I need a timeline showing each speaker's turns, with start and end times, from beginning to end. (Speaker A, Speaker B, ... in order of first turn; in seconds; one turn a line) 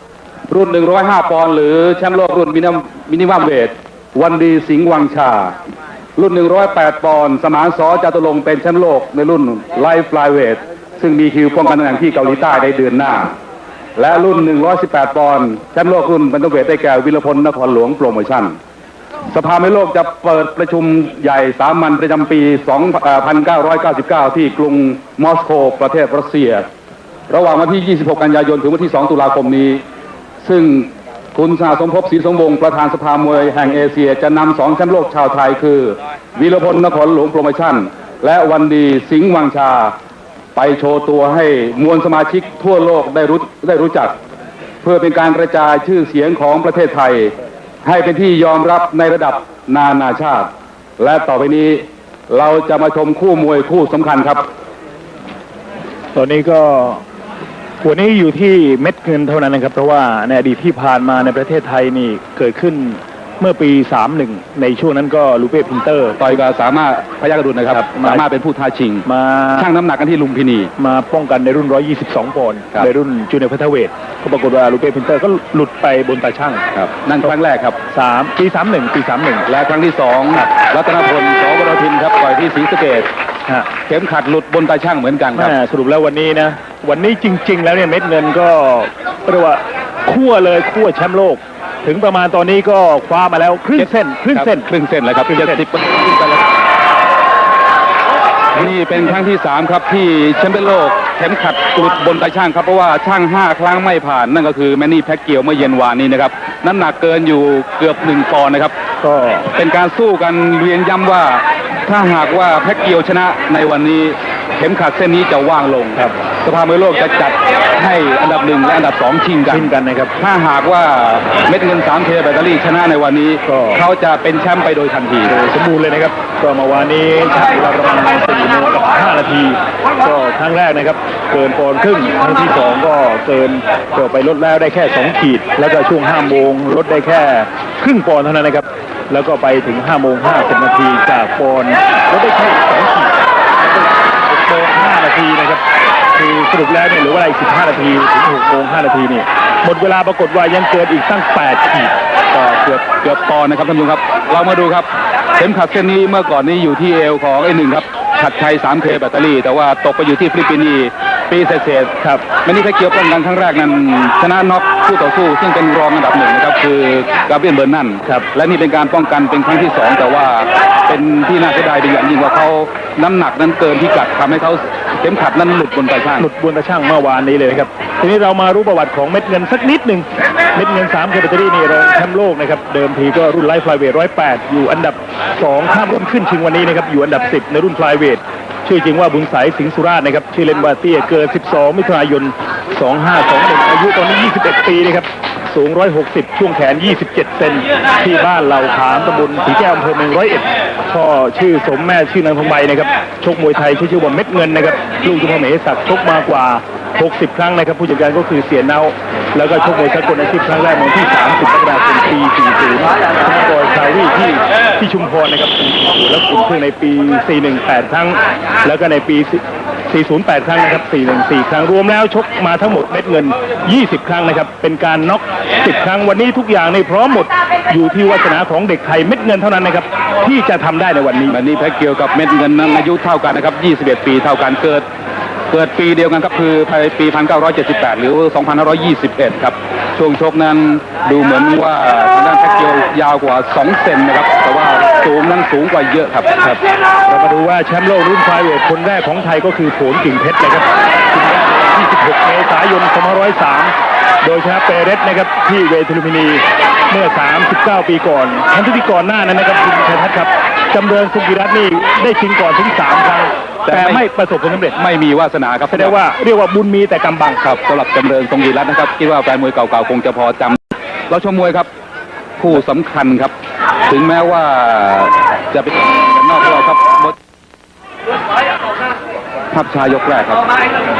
Speaker A: 0.5-5.5
Speaker A: 6.2-13.3
Speaker A: 13.9-18.6
Speaker A: 19.3-26.7
Speaker A: 27.3-29.8
Speaker A: 30.4-39.9
Speaker A: 40.5-44.1
Speaker A: 44.8-47.3
Speaker A: 47.8-54.5
Speaker B: 56.1-57.0
Speaker B: 57.8-66.2
Speaker A: 66.2-70.7
Speaker B: 67.7-68.2
Speaker B: 69.0-69.7
Speaker B: 70.8-76.6
Speaker A: 76.7-77.8
Speaker B: 77.9-79.5
Speaker A: 79.5-83.1
Speaker A: 83.8-85.5
Speaker B: 85.3-94.7
Speaker A: 93.8-96.5
Speaker B: 95.3-95.6
Speaker A: 98.5-108.7
Speaker B: 109.0-109.5
Speaker A: 109.5-125.3
Speaker B: 119.5-120.1
Speaker B: 123.5-123.8
Speaker B: 125.3-143.1
Speaker B: 144.2-145.6
Speaker B: 146.1-151.9
Speaker A: 152.3-176.3
Speaker B: 176.2-231.4
Speaker A: 231.3-234.8
Speaker A: 235.5-246.3
Speaker B: 246.4-264.8
Speaker A: 263.6-264.0
Speaker A: 264.8-265.9
Speaker B: 265.7-267.4
Speaker A: 267.4-271.7
Speaker A: 272.4-273.3
Speaker A: 273.9-277.1
Speaker A: 279.5-280.4